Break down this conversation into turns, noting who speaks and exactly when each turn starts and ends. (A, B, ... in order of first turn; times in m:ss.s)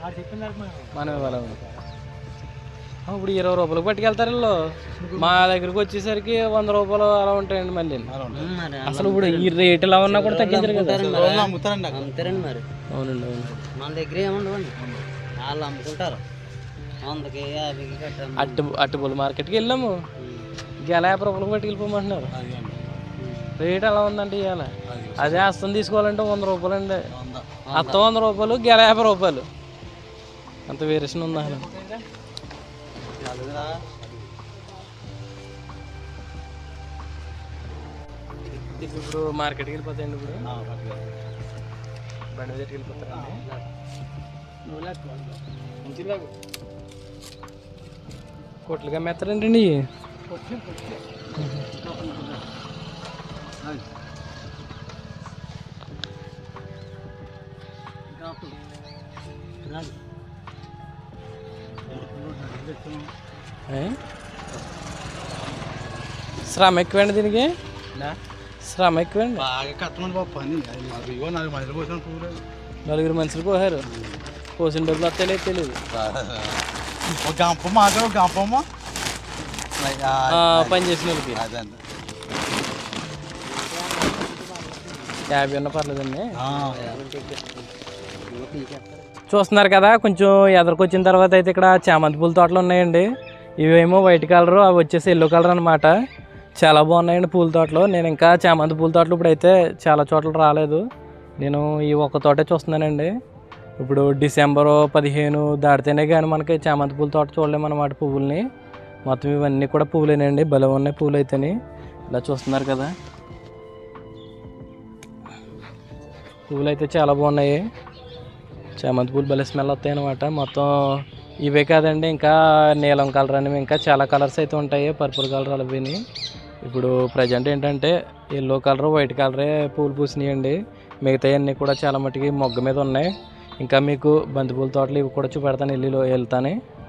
0:00.9-0:01.6 A
0:03.1-0:04.5 A
0:05.2-0:08.1 A
0:08.1-0:08.4 B
0:08.3-0:12.7 C
0:08.9-0:11.1 A
0:11.0-0:12.0 B
0:12.2-0:13.6 A
0:13.7-0:14.8 C
0:15.4-0:16.2 C
0:17.0-0:18.7 C
0:18.4-0:19.9 A
0:20.2-0:20.5 C
0:20.8-0:22.3 A
0:22.4-0:22.9 B
0:23.2-0:23.5 C
0:23.6-0:27.0 A
0:24.9-0:25.4 B
0:27.1-0:27.6 B
0:27.6-0:28.0 C
0:27.7-0:29.5 A
0:30.7-0:31.7 A
0:33.2-0:33.8 B
0:38.5-0:40.5 A
0:40.5-0:41.2 B
0:42.3-0:43.4 A
0:48.7-0:49.8 A
0:51.4-0:51.7 A
0:52.0-0:52.3 B
1:01.9-1:03.1 B
1:03.7-1:04.0 A
1:06.4-1:09.5 A
1:09.4-1:12.4 B
1:12.9-1:13.8 A
1:13.9-1:14.2 B
1:14.6-1:15.8 A
1:15.9-1:16.6 B
1:17.2-1:18.6 B
1:19.8-1:20.5 B
1:20.3-1:21.4 A
1:21.3-1:21.8 B
1:23.6-1:25.2 C
1:25.3-1:26.3 A
1:26.4-1:26.8 B
1:26.5-1:27.7 C
1:28.3-1:29.0 C
1:29.3-1:33.1 A
1:33.6-1:35.9 A
1:36.6-1:40.8 A
1:41.4-1:43.1 A
1:43.8-1:48.4 A
1:49.1-1:51.6 A
1:52.1-1:52.9 A
1:56.5-1:57.6 A
1:58.8-2:00.7 A
2:01.5-2:06.0 A
2:06.6-2:13.1 A
2:13.6-2:16.6 A